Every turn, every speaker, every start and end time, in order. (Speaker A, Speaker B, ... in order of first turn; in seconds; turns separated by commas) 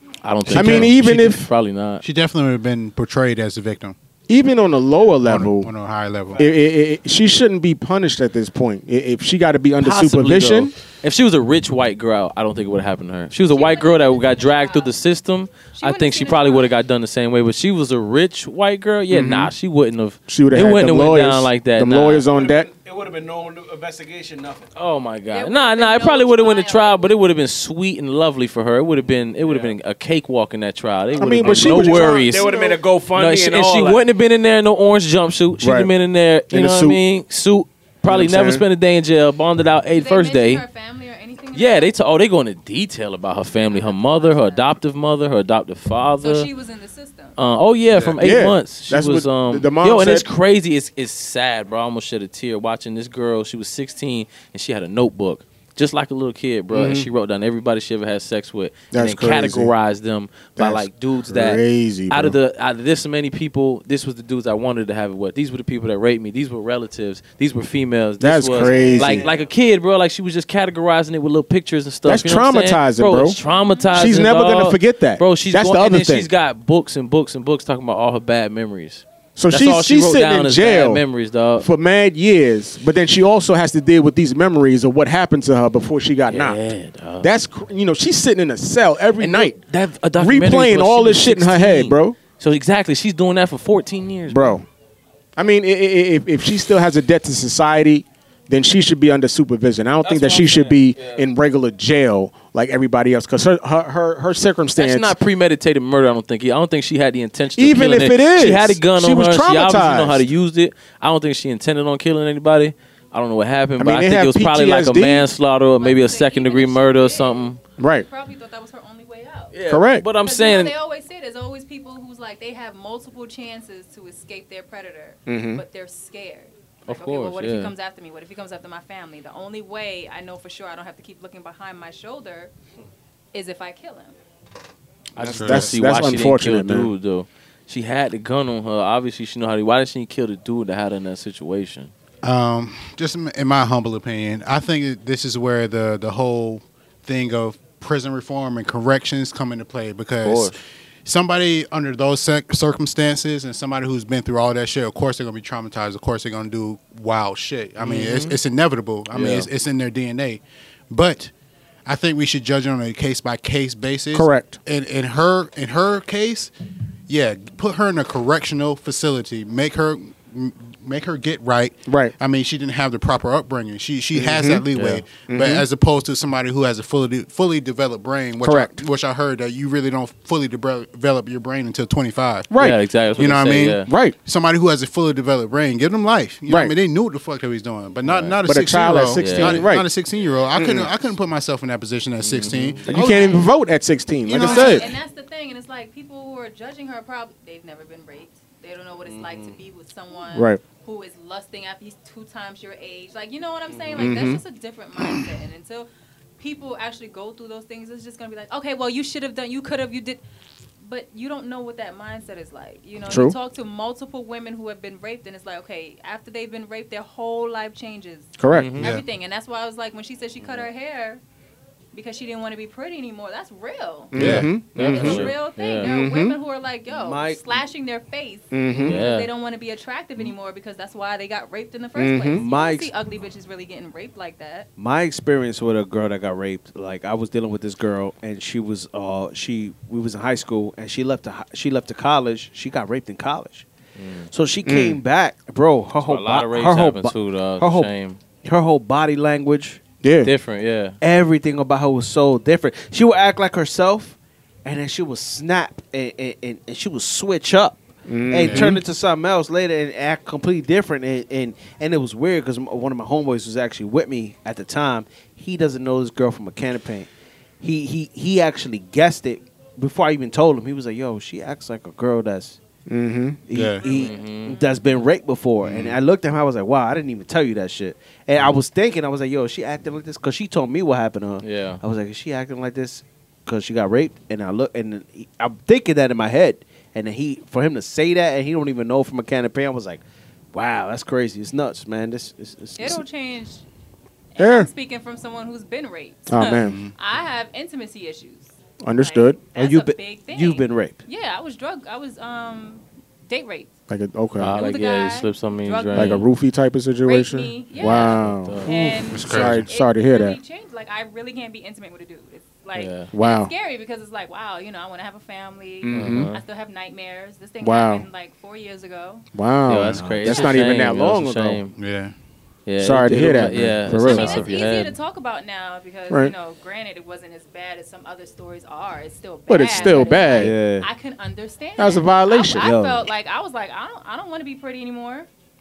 Speaker A: 0.2-2.0, Speaker B: 0.5-1.5, Speaker C: 0.5-0.9, Speaker C: 2.0-4.0, Speaker B: 4.3-5.7, Speaker C: 5.2-6.4, Speaker B: 6.4-10.7, Speaker A: 9.8-22.3, Speaker D: 13.5-15.0, Speaker D: 15.7-16.7, Speaker B: 19.1-19.5, Speaker B: 20.3-22.7, Speaker E: 22.3-24.7, Speaker A: 24.8-32.5, Speaker D: 25.3-27.1, Speaker E: 29.4-29.8, Speaker B: 31.2-32.3, Speaker E: 31.3-34.0, Speaker D: 32.2-32.8, Speaker A: 33.1-40.6, Speaker B: 35.6-35.9, Speaker B: 36.5-37.0, Speaker B: 38.1-38.6, Speaker D: 39.9-42.0, Speaker A: 41.5-46.5, Speaker D: 43.5-44.8, Speaker D: 46.2-47.4, Speaker A: 47.4-81.7, Speaker B: 48.2-50.3, Speaker B: 56.7-57.1, Speaker B: 58.9-59.7, Speaker B: 60.6-62.4, Speaker B: 68.2-69.3, Speaker E: 68.6-69.5, Speaker B: 72.0-73.4, Speaker D: 73.5-74.0, Speaker B: 73.9-76.3, Speaker B: 79.4-81.0, Speaker B: 81.6-86.6, Speaker A: 86.3-87.3, Speaker B: 87.2-89.6, Speaker A: 89.2-94.6, Speaker B: 90.2-92.2, Speaker B: 94.3-94.7, Speaker B: 95.4-105.2, Speaker A: 100.0-101.2, Speaker A: 104.8-117.6, Speaker B: 107.6-110.2, Speaker B: 113.8-115.3, Speaker D: 115.8-119.5, Speaker B: 117.8-118.1, Speaker A: 119.5-120.7, Speaker B: 119.7-120.1, Speaker D: 120.2-132.5, Speaker B: 125.3-125.6, Speaker A: 126.9-127.7, Speaker D: 133.3-134.2, Speaker A: 135.2-141.9, Speaker B: 135.2-136.9, Speaker C: 135.2-135.7, Speaker C: 142.2-161.3, Speaker A: 150.2-150.6, Speaker A: 157.8-158.4, Speaker A: 159.1-159.5, Speaker C: 161.9-166.5, Speaker B: 164.1-164.6, Speaker C: 167.1-182.5, Speaker B: 171.9-172.1, Speaker B: 174.1-174.7, Speaker A: 174.7-175.0, Speaker B: 175.3-175.7, Speaker B: 178.4-178.8, Speaker B: 182.5-182.8, Speaker A: 182.6-183.9, Speaker C: 183.2-193.5, Speaker B: 183.8-184.2, Speaker B: 186.5-186.7, Speaker A: 188.1-188.4, Speaker B: 188.4-189.9, Speaker A: 189.2-189.7, Speaker B: 190.5-190.9, Speaker A: 192.2-192.8, Speaker E: 192.8-193.1, Speaker B: 192.9-194.9, Speaker D: 193.0-193.5, Speaker C: 194.2-195.0, Speaker D: 194.3-205.9, Speaker E: 199.1-199.6, Speaker B: 200.3-200.6, Speaker E: 203.7-204.1, Speaker B: 204.0-204.4, Speaker B: 205.0-205.3, Speaker D: 206.4-210.2, Speaker D: 210.8-221.2, Speaker B: 213.1-213.4, Speaker B: 218.4-218.8, Speaker A: 218.5-218.9, Speaker E: 220.4-220.7, Speaker D: 221.9-234.7, Speaker B: 224.1-225.3, Speaker C: 224.2-224.6, Speaker A: 224.2-225.9, Speaker B: 225.8-226.4, Speaker E: 226.9-227.6, Speaker B: 228.5-229.0, Speaker A: 228.8-229.3, Speaker B: 232.0-232.4, Speaker E: 232.3-232.9, Speaker E: 234.8-243.7, Speaker A: 244.0-244.3, Speaker E: 244.3-247.9, Speaker B: 244.7-245.0, Speaker A: 246.0-248.2, Speaker E: 248.4-249.8, Speaker B: 250.0-250.3, Speaker A: 250.2-251.0, Speaker E: 251.0-267.1, Speaker B: 258.1-258.8, Speaker C: 258.4-258.8, Speaker E: 267.6-272.6, Speaker B: 272.9-273.4, Speaker E: 273.5-290.0, Speaker C: 273.5-273.8, Speaker A: 273.8-274.6, Speaker C: 275.6-276.0, Speaker A: 281.4-281.8, Speaker E: 290.5-293.0, Speaker D: 292.8-293.6, Speaker D: 294.3-303.7, Speaker B: 294.4-294.7, Speaker B: 296.3-296.8, Speaker C: 296.6-296.9, Speaker B: 298.8-299.4, Speaker E: 299.6-301.0, Speaker B: 303.9-304.6, Speaker A: 304.4-306.3, Speaker D: 304.5-306.3, Speaker B: 305.9-310.4, Speaker D: 307.0-319.3, Speaker A: 307.8-308.9, Speaker C: 309.1-309.7, Speaker A: 312.7-313.1, Speaker B: 313.1-313.5, Speaker B: 315.8-316.3, Speaker A: 315.9-316.4, Speaker B: 317.6-318.1, Speaker B: 319.3-321.6, Speaker A: 319.7-321.7, Speaker E: 319.9-320.5, Speaker C: 321.8-322.1, Speaker A: 322.7-324.9, Speaker B: 322.8-324.5, Speaker E: 323.1-323.8, Speaker D: 324.0-335.3, Speaker B: 329.5-330.5, Speaker E: 330.1-330.9, Speaker B: 331.8-332.7, Speaker E: 332.6-333.1